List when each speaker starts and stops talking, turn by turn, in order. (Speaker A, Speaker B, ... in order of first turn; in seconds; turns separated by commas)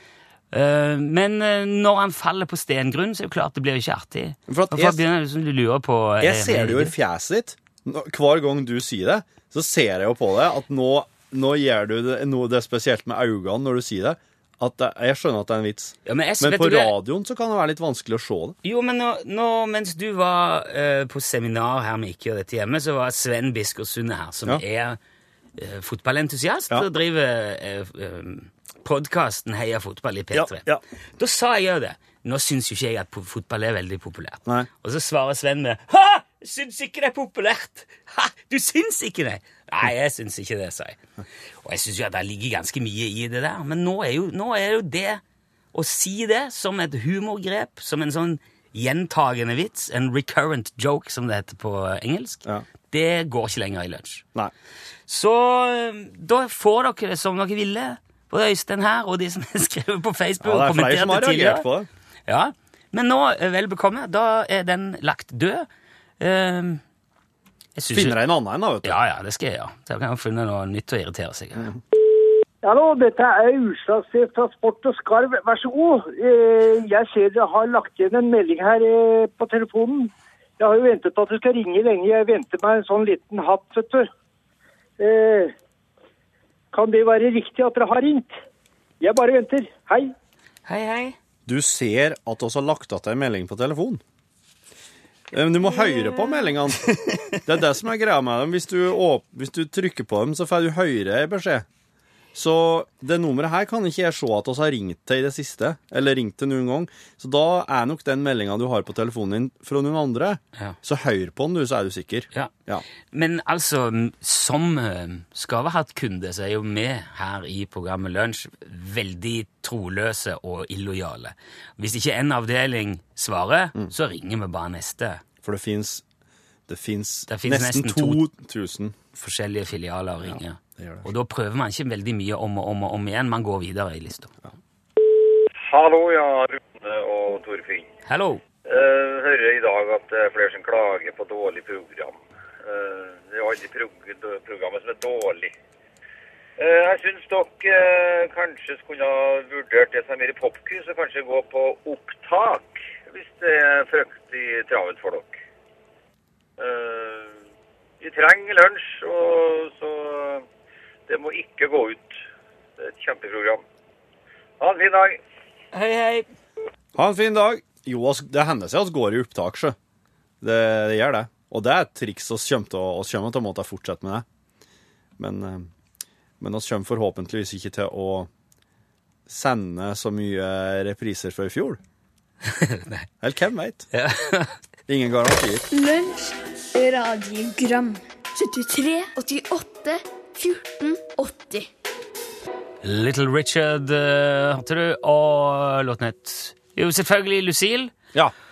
Speaker A: 0.5-6.9, Speaker B: 4.5-5.0, Speaker B: 6.2-18.6, Speaker A: 16.1-17.0, Speaker A: 18.6-25.0, Speaker A: 25.6-30.6, Speaker B: 30.3-30.8, Speaker A: 31.2-41.0, Speaker A: 41.6-45.2, Speaker A: 45.7-54.2, Speaker A: 55.1-61.7, Speaker B: 60.4-61.9, Speaker A: 62.3-65.7, Speaker A: 66.2-66.8, Speaker A: 67.8-68.2, Speaker B: 67.9-69.0, Speaker A: 68.8-71.7, Speaker C: 72.6-84.1, Speaker C: 85.0-85.5, Speaker C: 86.7-88.4, Speaker C: 89.0-90.1, Speaker A: 90.7-91.2, Speaker B: 91.5-94.0, Speaker B: 95.3-101.7, Speaker A: 95.8-97.4, Speaker B: 102.3-112.8, Speaker A: 113.1-125.2, Speaker B: 125.4-126.0, Speaker B: 126.7-128.9, Speaker A: 127.3-128.2, Speaker A: 129.2-134.3, Speaker B: 130.3-131.1, Speaker D: 135.6-137.9, Speaker A: 138.1-138.4, Speaker D: 138.7-145.5, Speaker D: 146.6-155.4, Speaker D: 156.6-157.3, Speaker D: 158.0-160.4, Speaker D: 161.1-162.2, Speaker D: 162.8-163.6, Speaker D: 164.6-165.2, Speaker A: 165.7-166.3, Speaker B: 166.9-169.8, Speaker B: 170.4-174.2, Speaker B: 175.2-175.7, Speaker B: 176.4-178.3, Speaker B: 179.3-181.8, Speaker A: 182.5-183.1, Speaker B: 183.2-183.9, Speaker A: 183.9-184.5, Speaker B: 184.9-185.7, Speaker E: 185.7-191.7, Speaker A: 192.8-197.9